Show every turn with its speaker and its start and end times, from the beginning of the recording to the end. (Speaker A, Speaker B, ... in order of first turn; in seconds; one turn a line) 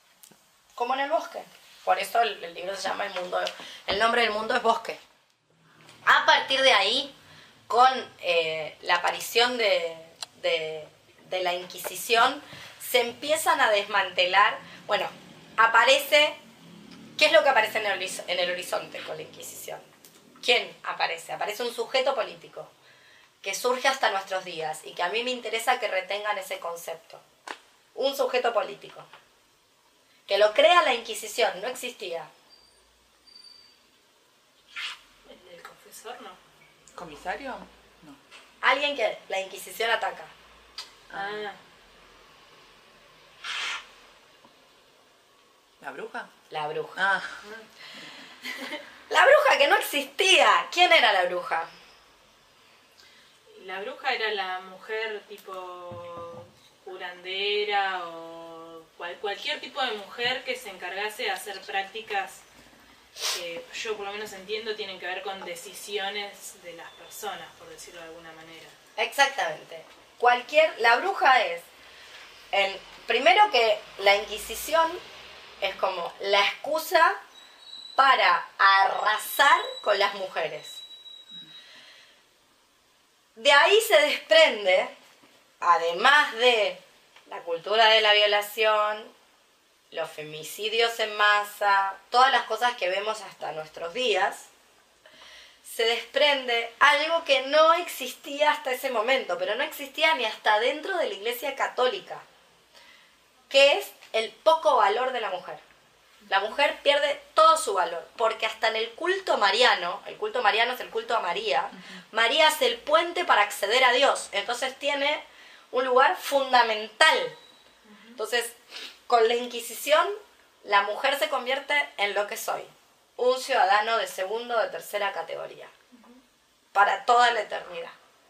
Speaker A: 0.8-5.0
Speaker A: 6.1-7.1
Speaker A: 7.7-16.4
Speaker A: 17.2-19.9
Speaker A: 20.4-22.7
Speaker A: 23.4-27.2
Speaker A: 27.9-29.1
Speaker A: 30.3-32.3
Speaker B: 35.2-36.4
Speaker C: 36.9-38.2
Speaker A: 38.6-40.3
Speaker C: 41.1-41.5
Speaker B: 41.1-41.6
Speaker C: 45.8-46.3
Speaker A: 46.5-47.0
Speaker C: 47.0-47.4
Speaker A: 49.1-51.7
Speaker B: 53.5-62.4
Speaker B: 63.3-68.8
Speaker A: 69.0-71.7
Speaker A: 72.5-75.0
Speaker A: 75.6-77.2
Speaker A: 78.0-80.8
Speaker A: 83.4-85.0
Speaker A: 85.6-89.1
Speaker A: 89.9-94.5
Speaker A: 95.6-102.2
Speaker A: 103.5-105.6
Speaker A: 106.3-117.4
Speaker B: 117.9-118.2
Speaker A: 118.2-118.6
Speaker A: 119.1-125.7
Speaker A: 126.7-128.0